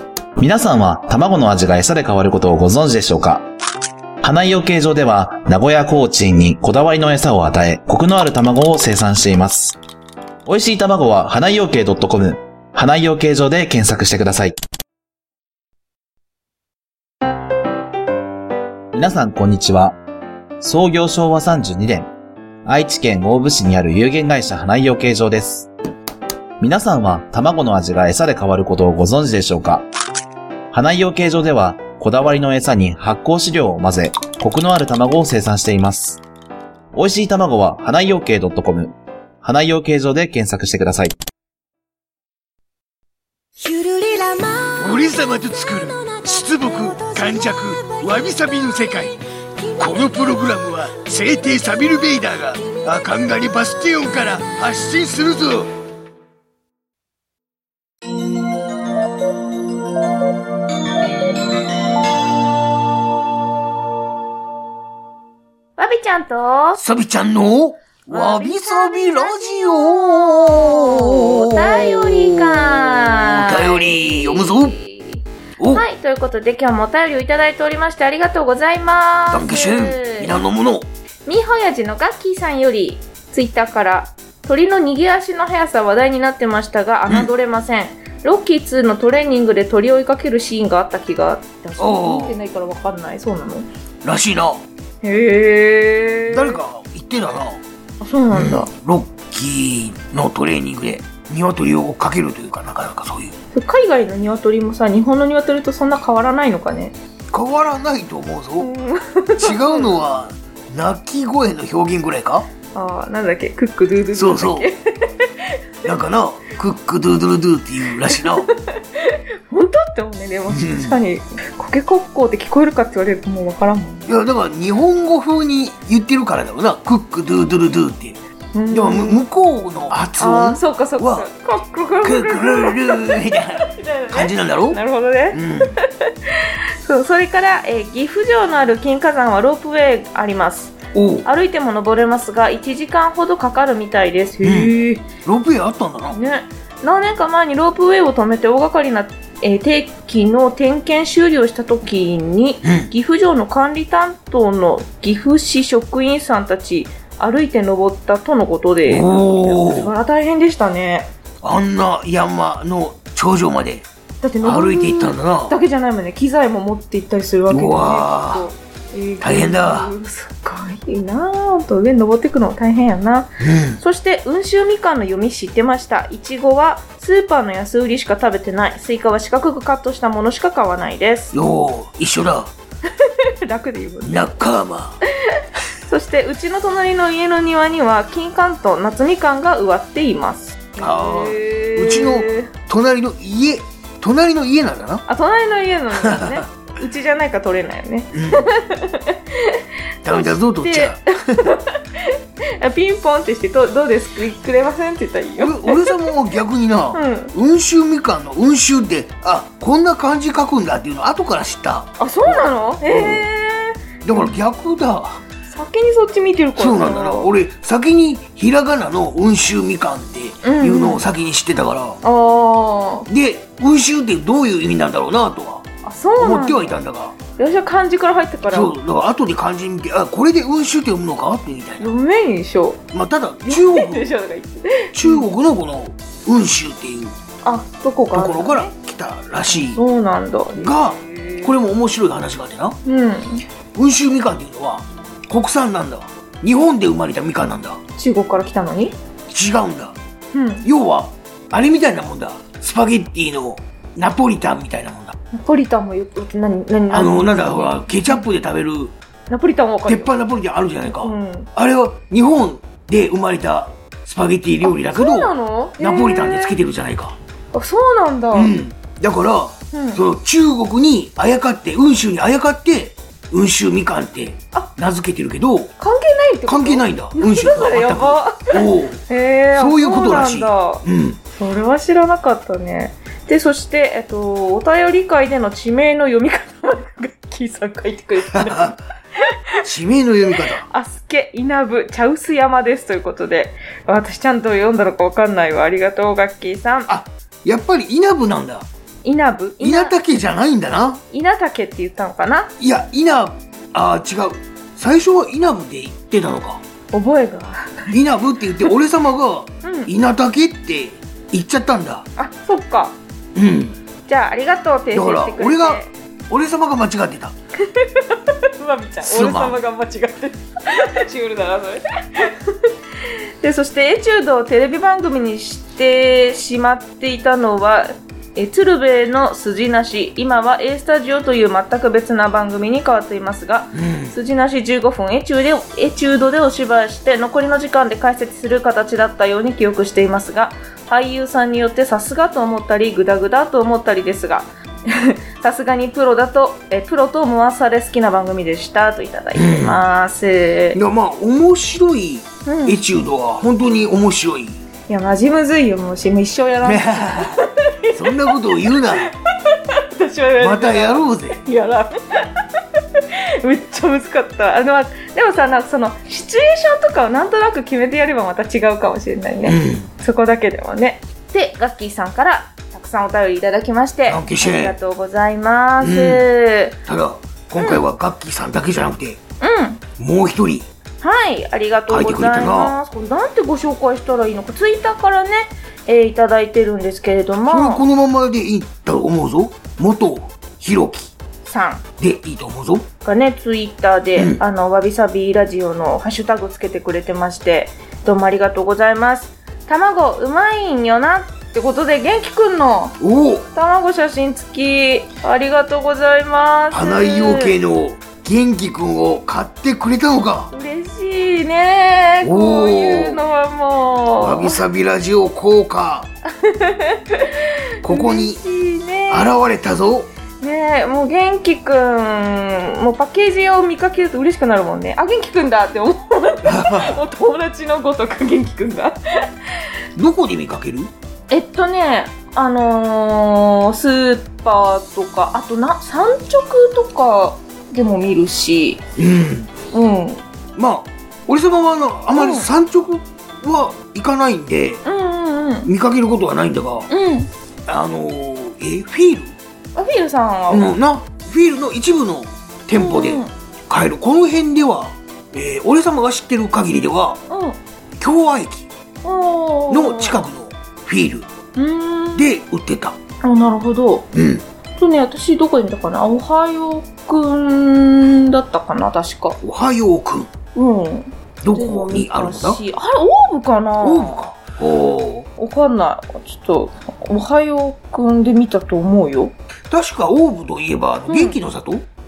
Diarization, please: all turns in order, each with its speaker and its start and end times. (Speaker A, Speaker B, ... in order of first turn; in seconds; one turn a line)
Speaker A: 0.4-3.5
Speaker A: 4.2-9.8
Speaker A: 10.4-14.6
Speaker A: 18.9-20.0
Speaker A: 20.6-22.1
Speaker A: 22.6-25.7
Speaker A: 26.6-29.9
Speaker A: 30.7-36.2
Speaker A: 36.9-41.2
Speaker B: 43.7-49.2
Speaker B: 49.8-55.7
Speaker C: 65.8-66.8
Speaker B: 66.8-74.8
Speaker C: 68.1-80.3
Speaker B: 75.6-75.8
Speaker B: 79.3-80.9
Speaker C: 81.3-93.7
Speaker B: 91.8-92.4
Speaker B: 94.0-94.6
Speaker C: 95.0-96.6
Speaker B: 96.3-97.6
Speaker C: 98.0-98.7
Speaker B: 98.3-103.3
Speaker C: 103.5-107.0
Speaker B: 107.3-108.7
Speaker C: 108.6-110.0
Speaker B: 109.4-112.5
Speaker C: 112.7-115.9
Speaker B: 114.1-114.7
Speaker B: 115.8-118.5
Speaker C: 118.0-124.1
Speaker B: 120.5-121.0
Speaker B: 124.1-128.2
Speaker C: 128.5-129.2
Speaker B: 128.7-131.3
Speaker C: 130.2-135.4
Speaker B: 132.0-134.8
Speaker B: 135.3-135.7
Speaker C: 136.0-145.1
Speaker B: 140.9-141.3
Speaker B: 144.4-146.2
Speaker C: 146.1-161.1
Speaker B: 152.6-152.9
Speaker B: 158.9-159.9
Speaker B: 161.4-163.9
Speaker C: 164.2-181.3
Speaker B: 164.4-165.6
Speaker B: 167.5-168.5
Speaker B: 169.2-169.9
Speaker B: 173.4-173.8
Speaker B: 181.3-182.5
Speaker C: 182.9-184.4
Speaker B: 184.0-185.0
Speaker C: 185.3-192.5
Speaker B: 190.8-195.0
Speaker C: 195.1-206.1
Speaker B: 195.9-196.4
Speaker B: 198.1-198.5
Speaker B: 200.0-201.4
Speaker B: 205.4-213.3
Speaker C: 206.9-207.3
Speaker C: 212.0-213.8
Speaker B: 214.0-215.2
Speaker C: 215.4-217.3
Speaker B: 216.6-222.0
Speaker C: 220.4-221.1
Speaker C: 222.0-223.1
Speaker B: 223.1-225.6
Speaker C: 225.8-226.8
Speaker B: 226.2-227.2
Speaker C: 227.3-228.8
Speaker B: 228.5-232.0
Speaker C: 231.8-232.8
Speaker B: 232.9-234.1
Speaker C: 233.5-235.3
Speaker B: 234.9-237.2
Speaker C: 237.4-238.7
Speaker B: 238.1-239.8
Speaker C: 239.5-241.6
Speaker B: 240.6-242.8
Speaker C: 242.8-243.4
Speaker B: 243.8-247.8
Speaker C: 248.0-249.0
Speaker B: 249.3-250.0
Speaker C: 250.3-250.7
Speaker B: 250.6-255.1
Speaker C: 255.3-258.2
Speaker B: 256.9-258.9
Speaker C: 259.3-260.1
Speaker B: 259.9-267.2
Speaker C: 261.0-261.5
Speaker C: 264.6-266.6
Speaker C: 267.5-268.6
Speaker B: 268.3-275.7
Speaker C: 269.7-270.0
Speaker C: 275.8-289.4
Speaker B: 276.5-281.2
Speaker B: 288.3-288.8
Speaker B: 289.6-290.7
Speaker C: 290.4-296.9
Speaker B: 296.9-298.7
Speaker C: 299.0-300.0
Speaker B: 299.6-301.0
Speaker C: 301.1-302.5
Speaker B: 302.6-306.6
Speaker C: 306.9-308.0
Speaker B: 307.9-312.1
Speaker C: 309.6-309.9
Speaker C: 312.2-313.0
Speaker B: 313.4-313.8
Speaker C: 314.1-315.9
Speaker B: 314.9-317.3
Speaker C: 317.7-322.7
Speaker B: 319.0-319.6
Speaker C: 323.4-350.8
Speaker B: 333.7-334.1
Speaker B: 349.3-349.8
Speaker B: 350.7-354.6
Speaker C: 352.4-352.8
Speaker C: 354.9-376.8
Speaker B: 356.6-357.4
Speaker B: 357.9-359.1
Speaker B: 360.4-361.4
Speaker B: 369.5-369.9
Speaker B: 374.1-374.8
Speaker B: 375.8-376.3
Speaker B: 376.9-379.2
Speaker C: 377.6-377.8
Speaker C: 379.4-379.8
Speaker B: 380.0-380.7
Speaker C: 381.0-387.8
Speaker B: 381.9-382.8
Speaker B: 387.5-391.1
Speaker C: 391.4-391.8
Speaker B: 392.0-392.9
Speaker C: 393.0-403.0
Speaker B: 403.0-403.5
Speaker C: 403.5-407.6
Speaker B: 406.7-410.5
Speaker C: 410.5-414.6
Speaker B: 412.2-413.2
Speaker B: 414.2-416.1
Speaker C: 416.4-419.3
Speaker B: 417.8-418.4
Speaker B: 419.1-420.1
Speaker C: 420.4-429.0
Speaker B: 426.4-427.0
Speaker B: 430.0-430.9
Speaker C: 431.3-438.8
Speaker B: 439.0-439.5
Speaker C: 439.7-440.2
Speaker B: 440.6-444.8
Speaker C: 442.1-442.5
Speaker C: 444.8-445.7
Speaker B: 445.6-446.9
Speaker C: 446.9-447.3
Speaker B: 447.7-449.4
Speaker C: 449.8-450.7
Speaker B: 450.5-457.2
Speaker C: 452.7-453.3
Speaker C: 457.3-457.6
Speaker B: 458.0-458.7
Speaker C: 459.0-460.2
Speaker B: 459.7-461.3
Speaker C: 461.6-462.3
Speaker B: 462.1-463.0
Speaker C: 463.2-464.1
Speaker B: 464.1-464.4
Speaker C: 464.8-469.4
Speaker B: 469.4-470.3
Speaker C: 470.6-474.2
Speaker B: 471.4-472.6
Speaker B: 473.8-475.3
Speaker C: 475.4-479.3
Speaker B: 479.7-481.9
Speaker C: 481.1-481.4